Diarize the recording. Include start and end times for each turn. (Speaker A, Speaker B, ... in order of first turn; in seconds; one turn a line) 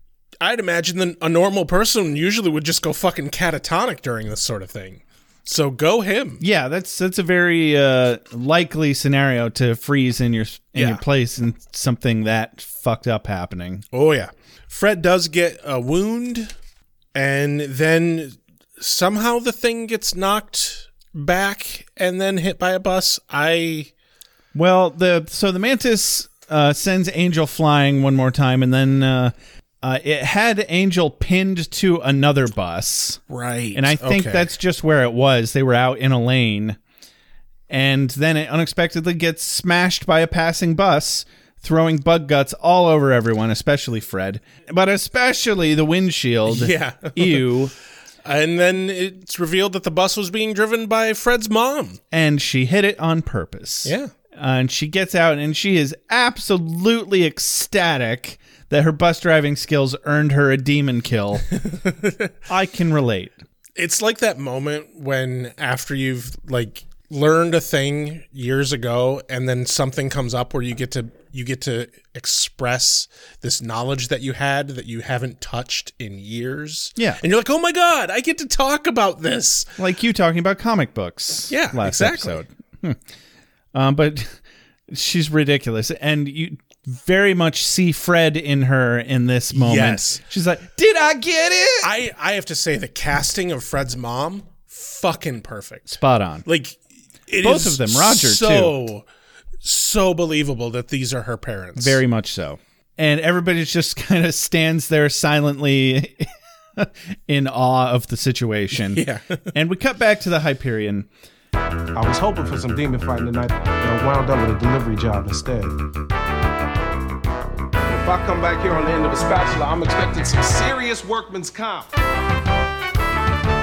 Speaker A: 0.4-6.4
Speaker B: 6.4-13.8
Speaker A: 10.7-11.0
Speaker A: 13.9-16.5
Speaker A: 17.1-23.9
Speaker B: 24.5-33.2
Speaker A: 33.3-34.5
Speaker B: 33.7-36.8
Speaker B: 37.7-47.7
Speaker A: 46.5-47.5
Speaker A: 48.2-52.0
Speaker B: 52.1-61.5
Speaker A: 53.8-54.1
Speaker A: 61.7-62.3
Speaker B: 62.5-63.4
Speaker A: 63.8-79.7
Speaker B: 77.0-77.2
Speaker B: 79.8-83.0
Speaker A: 81.5-82.4
Speaker B: 83.7-84.4
Speaker B: 84.9-91.9
Speaker A: 89.5-90.2
Speaker A: 91.8-99.1
Speaker B: 95.9-96.5
Speaker B: 97.4-98.8
Speaker A: 99.6-102.0
Speaker B: 101.8-111.1
Speaker A: 108.8-109.5
Speaker C: 111.9-115.7
Speaker C: 117.9-121.9